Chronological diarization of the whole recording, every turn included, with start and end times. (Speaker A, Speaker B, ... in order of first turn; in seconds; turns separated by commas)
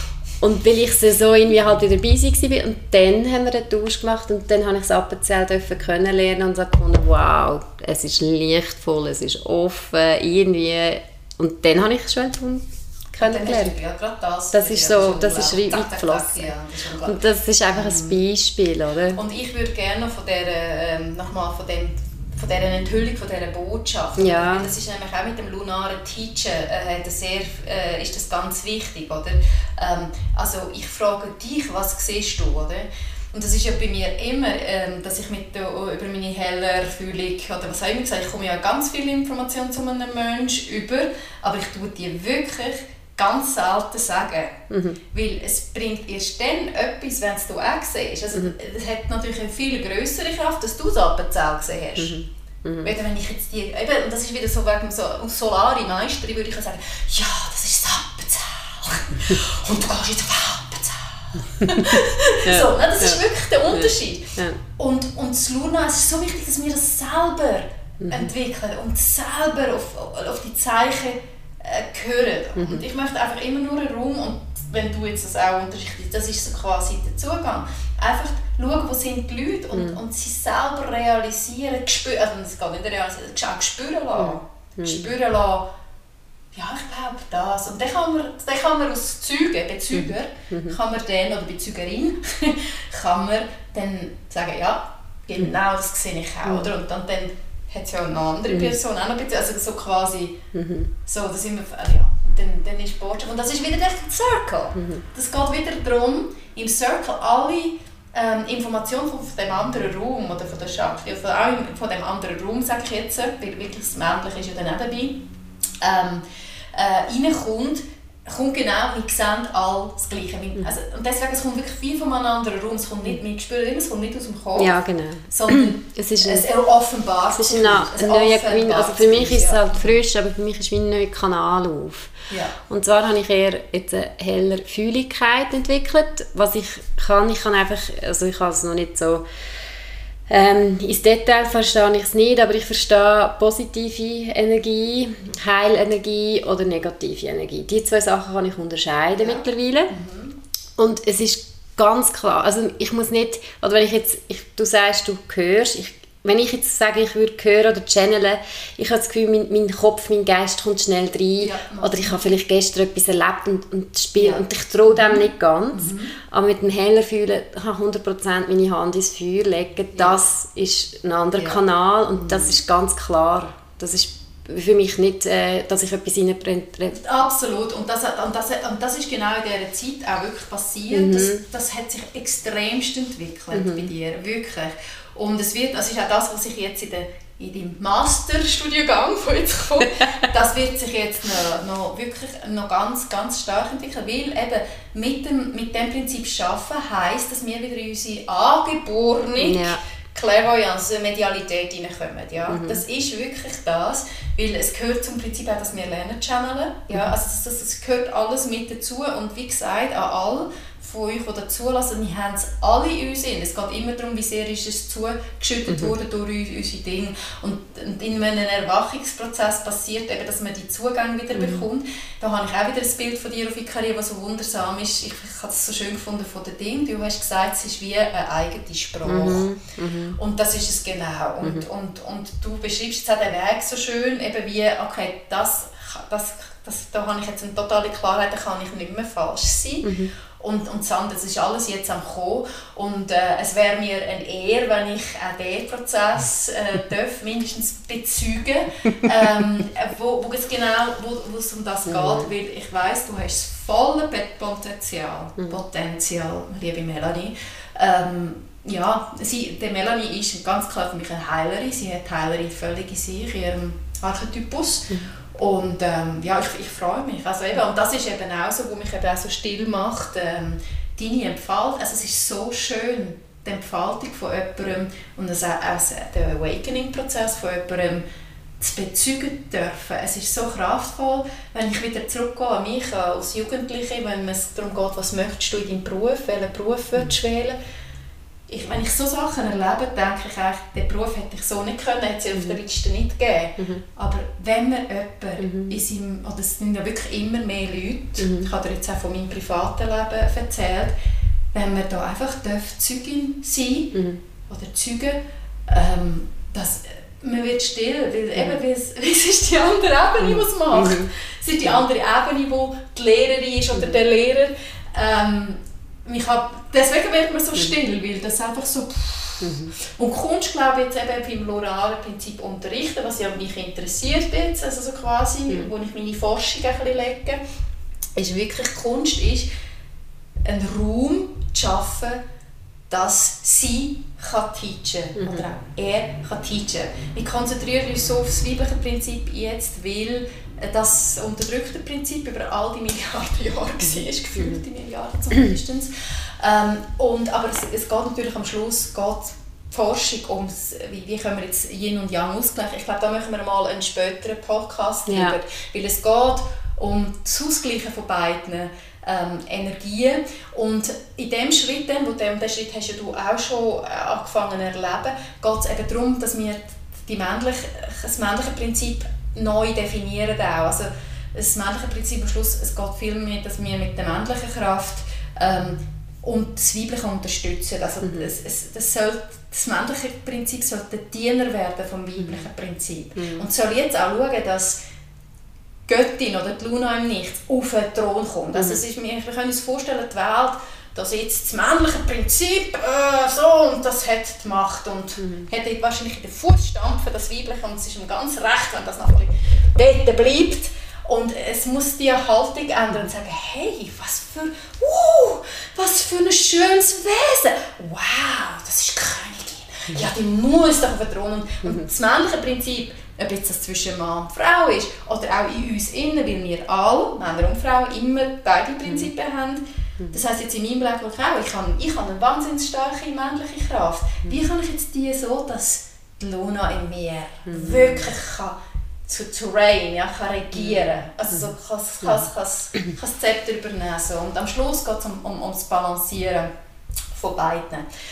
Speaker A: 0.4-13.7, Speaker B: 13.2-17.2, Speaker A: 14.5-16.5, Speaker A: 17.0-19.2, Speaker B: 17.7-18.2, Speaker B: 19.1-52.2, Speaker A: 24.2-24.7, Speaker A: 44.7-45.0, Speaker A: 52.0-52.9, Speaker B: 52.8-85.7, Speaker A: 61.6-64.6, Speaker A: 68.0-68.3, Speaker A: 72.5-72.8, Speaker A: 84.1-85.1, Speaker B: 86.5-100.4, Speaker A: 89.9-90.8, Speaker A: 98.5-98.7, Speaker A: 100.5-100.9, Speaker B: 101.0-115.2, Speaker A: 104.7-105.0, Speaker B: 115.8-124.8, Speaker A: 124.6-126.5, Speaker B: 125.3-129.9, Speaker A: 127.3-132.1, Speaker B: 132.3-132.6, Speaker A: 132.7-139.2, Speaker A: 140.3-149.9, Speaker B: 149.2-150.4, Speaker A: 150.8-177.0, Speaker B: 161.4-162.2, Speaker B: 164.2-166.1, Speaker B: 172.1-172.5, Speaker B: 176.9-229.4, Speaker A: 180.9-181.4, Speaker A: 183.5-183.9, Speaker A: 199.4-199.8, Speaker A: 202.5-202.8, Speaker A: 215.7-215.9, Speaker A: 221.3-221.6, Speaker A: 229.0-230.2, Speaker B: 230.2-278.0, Speaker A: 239.8-240.1, Speaker A: 251.9-252.3, Speaker B: 278.6-287.6, Speaker B: 288.5-300.9, Speaker A: 293.6-293.8, Speaker A: 295.4-295.8, Speaker A: 298.2-298.5, Speaker B: 301.5-303.9, Speaker A: 303.9-304.2, Speaker B: 304.5-327.4, Speaker A: 310.2-311.1, Speaker A: 319.4-319.7, Speaker B: 328.1-329.5, Speaker B: 330.4-332.2, Speaker B: 332.9-384.8, Speaker A: 335.1-335.4, Speaker A: 355.1-355.4, Speaker A: 378.0-378.3, Speaker A: 383.1-383.5, Speaker B: 385.9-436.5, Speaker A: 395.2-395.5, Speaker A: 427.5-428.0, Speaker A: 430.5-430.8, Speaker B: 437.1-437.9